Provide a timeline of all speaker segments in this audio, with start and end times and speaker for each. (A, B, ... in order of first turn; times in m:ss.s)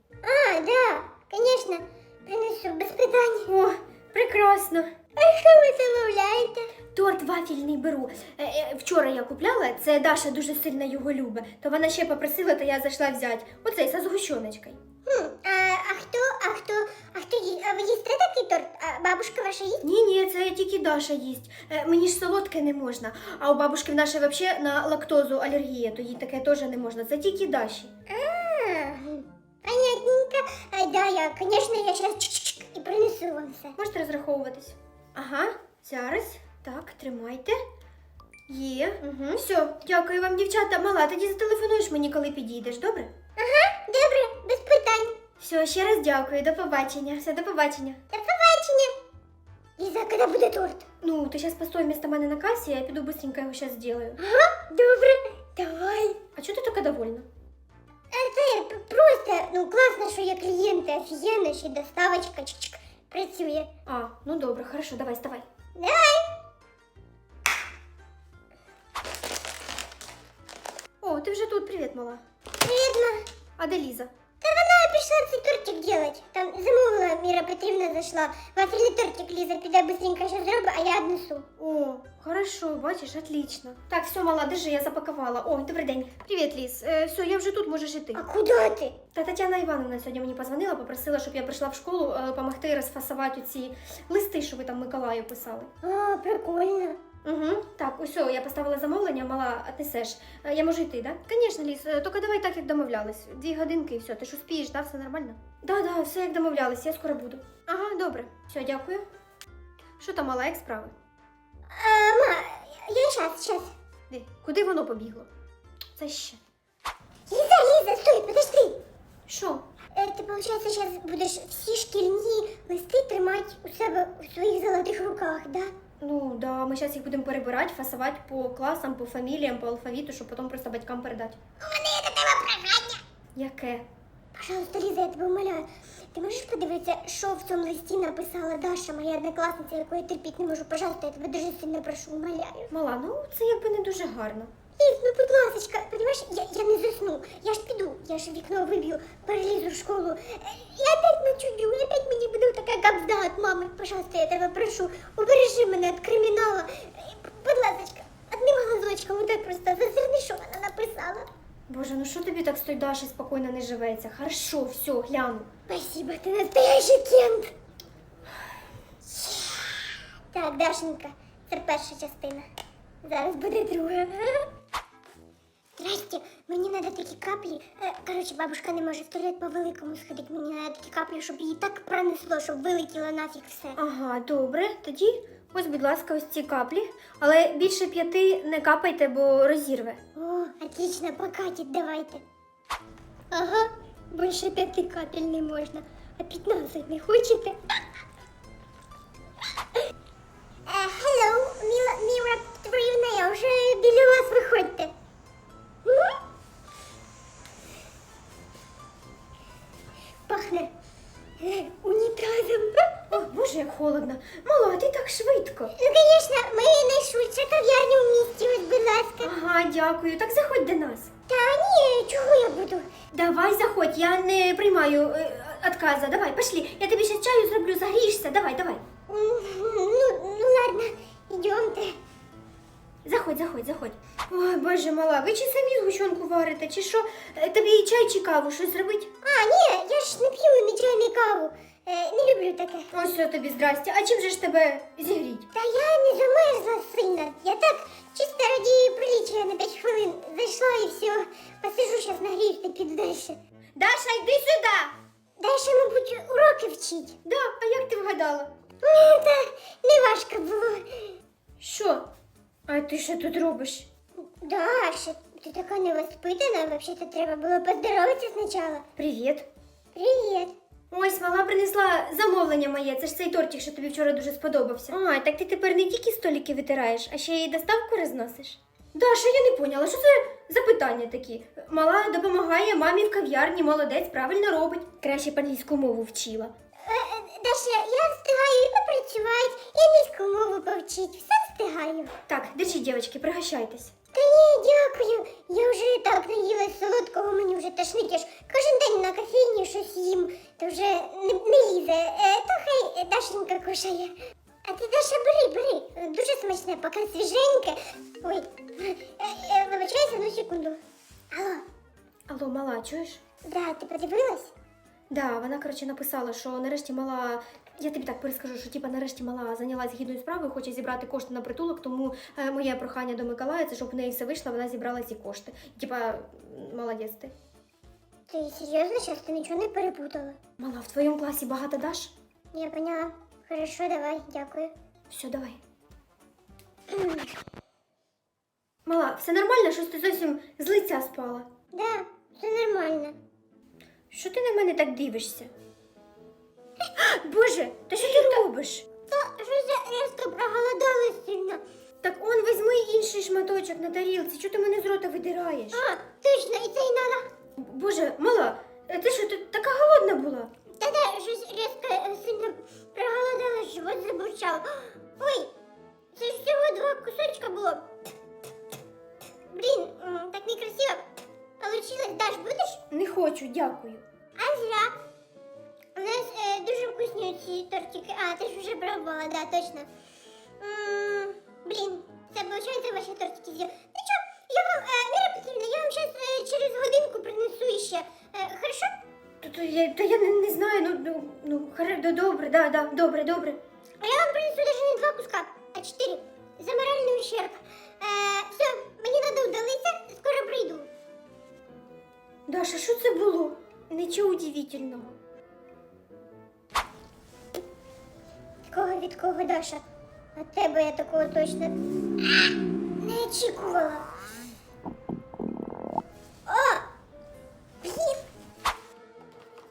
0:00.2-0:03.5 A
0:03.5-0:04.9 B
0:05.2-0:06.7 A
0:06.9-0:14.8 B
0:15.1-0:19.8 A
0:19.8-0:27.9 B
0:28.1-0:33.8 A
0:33.8-0:37.6 B
0:38.5-0:43.1 B
0:43.4-0:45.2 A
0:45.4-0:48.0 B
0:48.1-0:48.9 A
0:49.8-0:50.9 A
0:51.0-0:54.2 B
0:54.2-0:56.2 A
0:56.4-0:57.3 B
0:58.1-1:03.7 A
1:03.9-1:05.4 B
1:05.8-1:06.3 A
1:11.0-1:12.2 B
1:12.6-1:13.2 A
1:13.6-1:14.1 B
1:14.4-1:21.5 A
1:21.6-1:28.2 B
1:28.2-1:29.0 A
1:29.1-1:35.7 B
1:35.8-1:37.0 A
1:37.2-1:49.0 B
1:50.0-1:50.9 B
1:51.7-1:53.7 A
1:54.1-1:55.3 B
1:56.0-1:56.4 B
1:57.3-1:58.8 A
1:59.3-1:59.6 B
1:59.9-2:05.7 A
2:06.0-2:11.4 B
2:11.6-2:13.0 A
2:13.4-2:13.9 B
2:14.3-2:22.7 A
2:22.7-2:24.5 B
2:24.8-2:41.3 A
2:41.7-2:45.5 B
2:45.7-2:47.5 A
2:49.1-2:52.5 A
2:53.0-2:54.5 A
2:55.8-3:03.8 A
3:03.8-3:10.0 B
3:10.2-3:12.2 A
3:13.3-3:17.6 A
3:20.7-3:24.9 A
3:25.8-3:26.2 A
3:30.3-3:30.7 A
3:31.4-3:33.0 A
3:33.1-3:35.7 B
3:35.7-3:39.3 A
3:39.2-3:41.1 B
3:41.3-3:42.9 A
3:43.1-3:48.8 B
3:49.1-3:52.0 A
3:53.0-3:59.1 B
3:59.2-4:02.9 A
4:02.9-4:05.5 B
4:05.5-4:13.4 A
4:13.8-4:15.0 B
4:15.4-4:17.2 A
4:17.2-4:18.5 B
4:18.8-4:21.1 A
4:21.6-4:22.1 B
4:22.7-4:23.9 B
4:24.4-4:28.9 A
4:29.0-4:29.5 B
4:29.9-4:30.5 A
4:30.9-4:46.5 B
4:46.9-4:52.2 A
4:52.3-4:53.9 B
4:54.1-5:10.8 A
5:11.3-5:11.6 A
5:12.3-5:13.2 B
5:13.5-5:14.5 A
5:15.1-5:27.3 B
5:28.3-5:30.4 A
5:30.6-5:32.1 B
5:32.5-5:34.7 A
5:35.1-5:35.6 B
5:36.9-5:37.3 A
5:38.9-5:41.5 B
5:41.7-5:43.2 A
5:44.1-5:45.5 B
5:47.0-5:48.8 B
5:47.9-5:48.5 A
5:49.1-5:51.6 A
5:52.0-5:55.8 B
5:55.7-5:57.3 A
5:57.6-6:00.5 B
6:00.8-6:05.5 A
6:06.1-6:07.9 A
6:09.5-6:11.0 A
6:11.6-6:12.8 A
6:12.9-6:14.0 B
6:14.4-6:15.0 A
6:16.0-6:19.9 A
6:20.6-6:28.9 A
6:29.4-6:33.6 B
6:34.0-6:40.9 A
6:42.5-6:45.2 B
6:48.7-6:49.8 A
6:50.4-6:54.1 A
6:56.5-6:56.9 A
6:57.8-6:58.2 A